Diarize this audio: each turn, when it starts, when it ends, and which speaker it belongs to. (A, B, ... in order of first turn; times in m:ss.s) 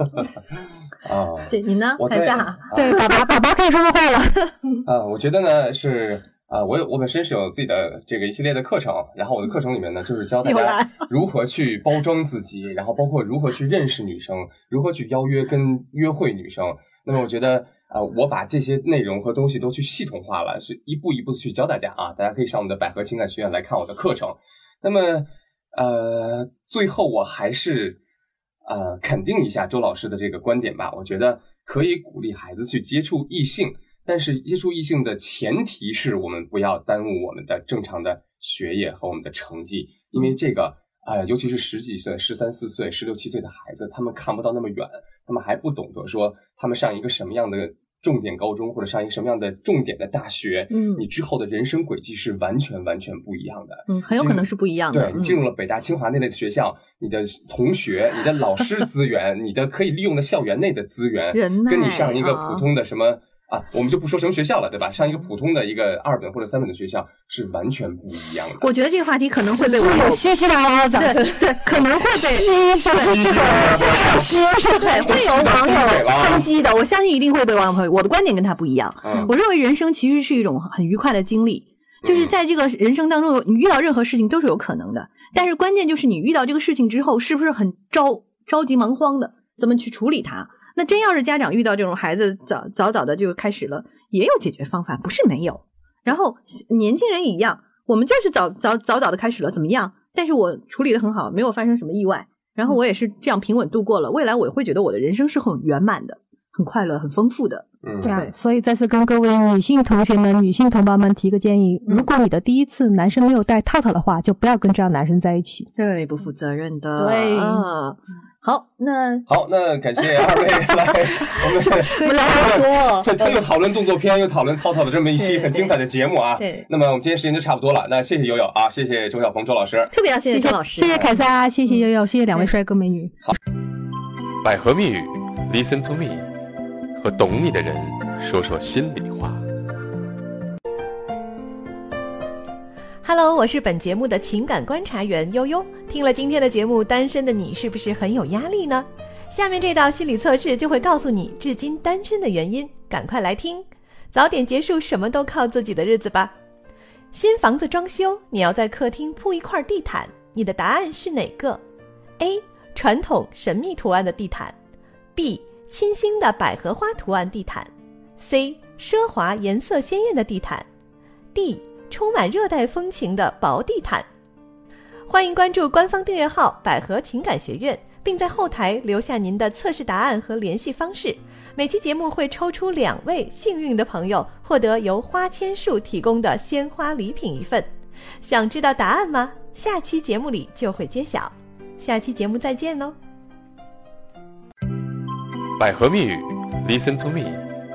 0:01.0-0:03.0 A
0:01.5-0:03.0 B
0:02.7-0:04.5 C
0:04.8-0:28.0 A
0:10.4-0:11.0 B
0:28.6-1:08.7 A
0:50.7-0:51.0 B
0:53.9-0:55.4 B
1:01.3-1:02.7 B
1:08.6-1:10.2 B
1:09.6-1:16.0 C
1:10.9-1:48.3 B
1:13.1-1:14.4 A
1:15.0-1:16.5 A
1:19.0-1:19.3 A
1:22.0-1:22.3 A
1:47.8-1:48.1 A
1:48.0-1:55.7 C
1:55.8-1:59.3 B
1:57.0-1:57.6 C
1:59.3-2:09.9 A
2:01.3-2:03.4 B
2:05.2-2:05.7 B
2:06.4-2:06.6 B
2:09.9-2:11.2 B
2:10.3-2:13.1 C
2:14.4-2:16.3 D
2:17.0-2:19.4 D
2:23.0-2:36.3 E
2:37.1-2:41.6 E
2:42.2-2:44.6 E
2:45.2-2:50.6 E
2:51.3-2:54.1 E
2:55.1-3:12.9 E
3:15.6-3:17.4 D